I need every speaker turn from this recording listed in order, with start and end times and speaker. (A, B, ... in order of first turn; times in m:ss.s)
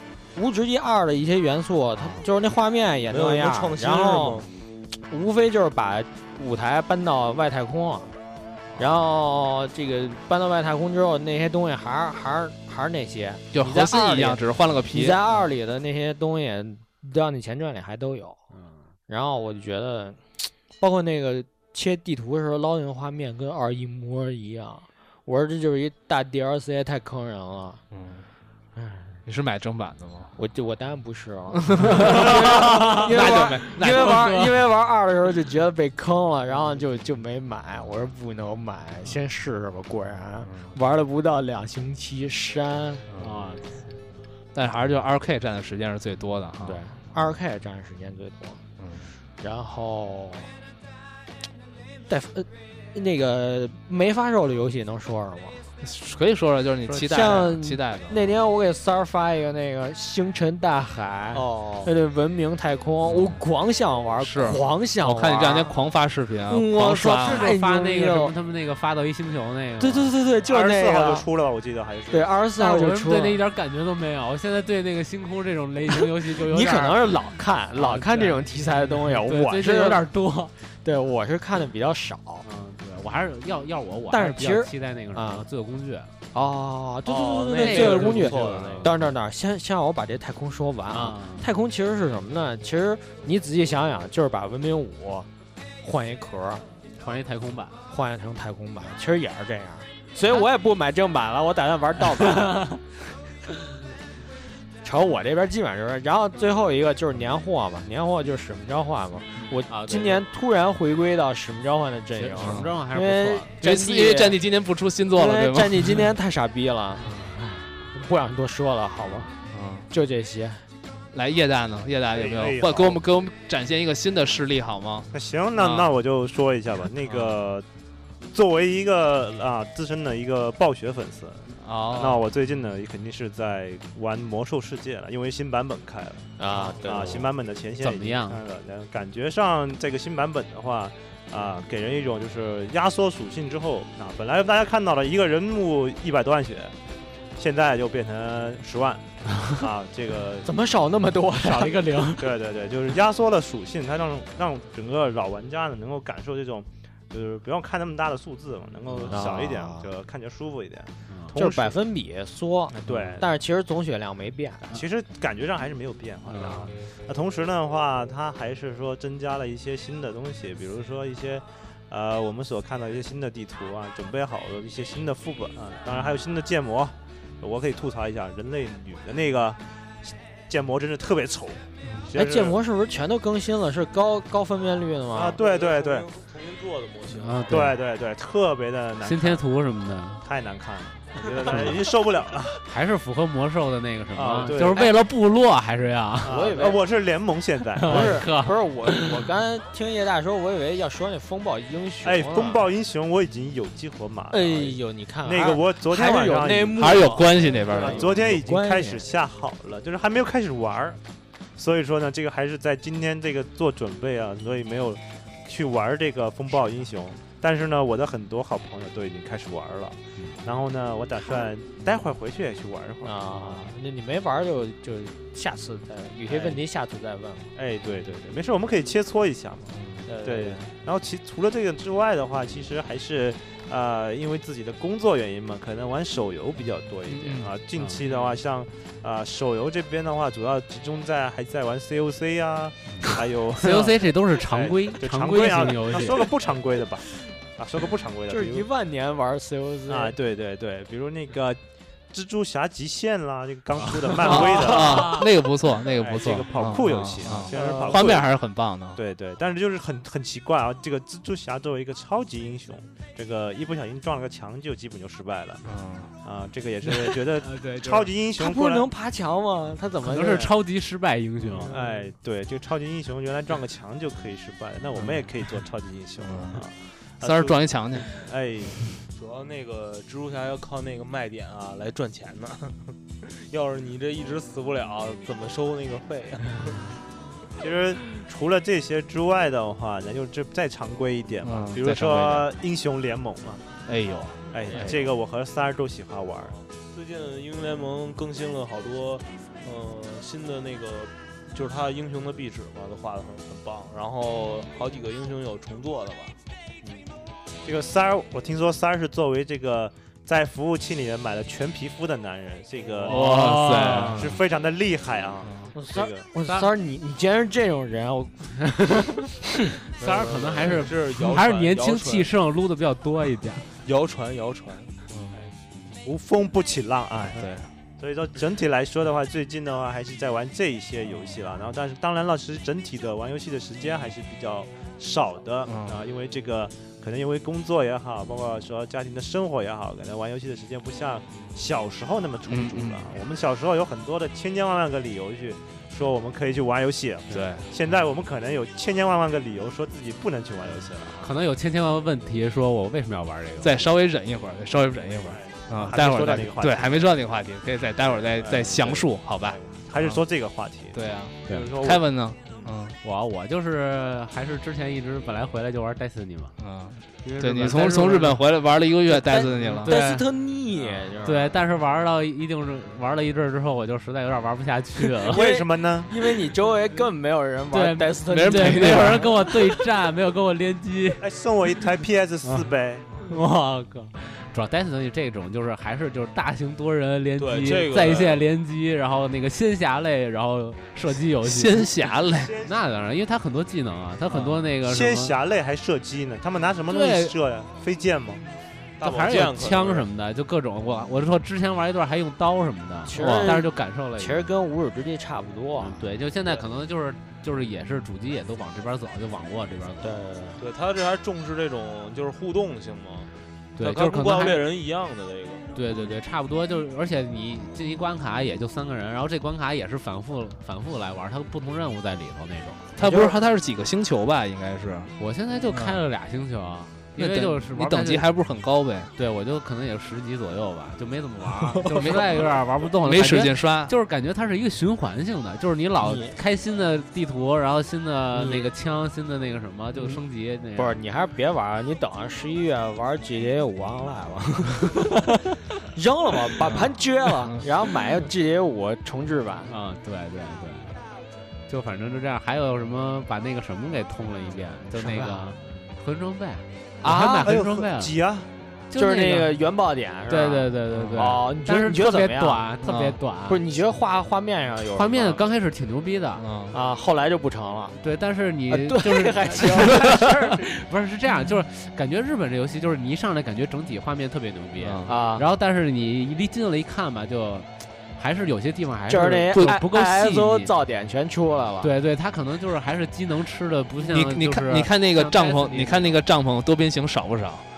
0:00.4-0:04.5 A
0:03.1-0:04.5 B
0:05.1-0:08.1 A
0:08.8-0:18.4 A
0:13.5-0:15.2 C
0:18.5-0:18.8 D
0:19.1-0:27.8 A
0:27.9-0:28.2 C
0:28.8-0:29.2 A
0:29.2-0:30.3 C
0:30.4-0:43.0 A
0:31.5-0:34.4 C
0:32.1-0:34.5 D
0:40.4-0:40.7 C
0:43.1-0:43.4 C
0:43.2-0:44.0 D
0:44.5-0:46.8 C
0:46.6-0:48.6 A
0:48.8-0:49.1 C
0:49.4-0:50.5 A
0:52.1-0:55.6 A
0:55.8-0:58.4 C
0:56.9-0:57.5 D
0:57.1-1:05.8 A
1:03.0-1:03.4 C
1:04.2-1:07.5 C
1:06.5-1:08.3 A
1:07.0-1:10.1 D
1:09.8-1:11.2 A
1:10.4-1:12.3 E
1:12.1-1:13.4 A
1:12.6-1:17.2 D
1:16.2-1:20.0 A
1:17.7-1:20.5 D
1:20.8-1:22.4 A
1:22.4-1:26.1 D
1:24.1-1:25.5 A
1:26.3-1:35.3 A
1:27.1-1:28.9 B
1:27.6-1:29.0 D
1:30.9-1:31.5 D
1:35.8-1:36.6 A
1:37.0-1:37.8 D
1:37.9-1:42.8 A
1:42.4-1:42.8 D
1:44.8-1:54.4 A
1:49.7-1:50.2 D
1:52.2-1:53.5 D
1:52.4-1:52.7 C
1:53.6-1:56.0 C
1:55.1-1:59.4 A
1:57.0-1:57.3 C
1:59.5-1:59.9 C
1:59.9-2:00.6 A
2:01.1-2:05.9 C
2:02.1-2:03.0 E
2:05.1-2:07.7 E
2:08.3-2:26.8 E
2:11.6-2:12.2 C
2:16.4-2:17.3 A
2:17.8-2:18.4 D
2:27.4-2:30.5 E
2:30.4-2:32.2 A
2:31.4-2:32.3 D
2:32.2-2:41.8 E
2:39.0-2:39.9 A
2:41.1-2:41.4 D
2:41.4-2:44.7 A
2:42.7-2:43.3 E
2:42.9-2:43.2 D
2:44.7-3:02.6 E
2:46.2-2:46.8 D
3:01.8-3:02.1 C
3:02.1-3:05.4 A
3:05.1-3:06.1 E
3:05.4-3:07.6 B
3:07.1-3:07.8 D
3:07.5-3:09.4 E
3:09.0-3:10.2 D
3:10.2-3:12.6 E
3:11.5-3:11.8 D
3:12.7-3:16.4 D
3:14.1-3:14.9 E
3:16.2-3:18.2 E
3:16.2-3:16.8 A
3:17.8-3:19.2 D
3:17.8-3:22.6 A
3:22.0-3:31.0 E
3:24.3-3:29.1 A
3:26.8-3:28.1 C
3:31.6-3:43.7 E
3:43.0-3:47.5 A
3:46.3-3:46.6 E
3:47.6-4:08.7 E
3:49.8-3:50.1 C
3:50.1-3:50.6 B
3:57.1-3:57.5 C
3:57.8-3:58.3 D
4:03.0-4:06.3 D
4:08.3-4:10.2 A
4:09.9-4:11.6 E
4:12.1-4:15.2 E
4:14.1-4:15.2 D
4:14.2-4:19.0 C
4:14.4-4:14.9 A
4:15.9-4:18.3 E
4:17.5-4:18.0 A
4:19.0-4:25.7 E
4:25.7-4:26.1 C
4:26.2-4:28.9 E
4:26.8-4:28.1 D
4:28.4-4:30.6 A
4:30.0-4:31.8 D
4:31.6-4:38.8 E
4:36.2-4:36.6 C
4:37.2-4:38.2 C
4:39.1-4:46.9 B
4:47.6-4:53.7 E
4:51.4-4:52.5 C
4:53.8-4:55.0 C
4:54.5-4:56.6 E
4:56.9-5:07.1 B
5:07.6-5:16.2 E
5:13.0-5:14.3 D
5:13.1-5:14.4 C
5:15.4-5:15.7 C
5:15.8-5:19.3 A
5:20.0-5:23.6 D
5:20.0-5:22.3 B
5:23.8-5:24.9 B
5:25.1-5:25.4 C
5:26.0-5:27.4 E
5:27.3-5:27.7 C
5:28.0-5:51.3 E
5:35.7-5:36.0 C
5:42.5-5:43.1 C
5:47.3-5:47.7 C
5:51.2-5:53.9 D
5:53.6-6:00.2 C
5:55.2-5:57.1 E
5:58.1-6:01.0 E
6:00.9-6:03.0 C
6:01.5-6:01.9 B
6:03.0-6:06.6 D
6:06.6-6:10.0 C
6:07.2-6:08.4 D
6:09.1-6:11.6 A
6:09.5-6:10.2 D
6:11.2-6:15.4 D
6:15.2-6:19.7 A
6:15.3-6:16.1 E
6:17.7-6:21.2 D
6:18.3-6:19.3 C
6:21.2-6:23.1 E
6:23.2-6:31.9 D
6:27.4-6:28.4 B
6:31.4-6:32.6 C
6:32.4-6:32.7 E
6:32.6-6:35.4 D
6:34.7-6:38.4 E
6:36.9-6:37.4 D
6:39.0-6:40.1 B
6:39.0-6:44.4 D
6:43.1-6:46.1 A
6:43.2-6:43.6 C
6:45.8-6:50.1 D
6:50.0-6:50.6 A
6:50.6-6:55.7 B
6:53.8-6:54.6 D
6:55.8-7:02.9 D
7:03.0-7:05.1 C
7:03.0-7:03.4 A
7:05.2-7:08.3 D
7:05.7-7:06.0 C
7:07.2-7:09.1 C
7:09.2-7:21.0 D
7:11.9-7:12.4 C
7:13.0-7:13.9 C
7:16.0-7:16.4 A
7:18.3-7:18.7 A
7:20.0-7:20.2 A
7:20.8-7:29.7 A
7:29.7-7:31.0 D
7:31.7-7:38.1 D
7:34.9-7:35.6 A
7:37.0-7:37.6 A
7:37.4-7:38.5 E
7:38.9-7:39.6 D
7:38.9-7:42.6 A
7:40.3-7:43.6 D
7:40.9-7:41.3 C
7:42.8-7:43.2 C
7:43.5-7:45.4 A
7:45.0-7:46.4 D
7:46.4-7:46.8 C
7:46.7-7:48.0 A
7:48.0-8:00.7 D
7:48.7-7:50.6 A
7:54.8-7:55.1 C
7:55.0-7:55.5 A
7:59.1-8:01.9 A
7:59.5-7:59.8 C
8:01.8-8:06.2 D
8:04.0-8:07.6 C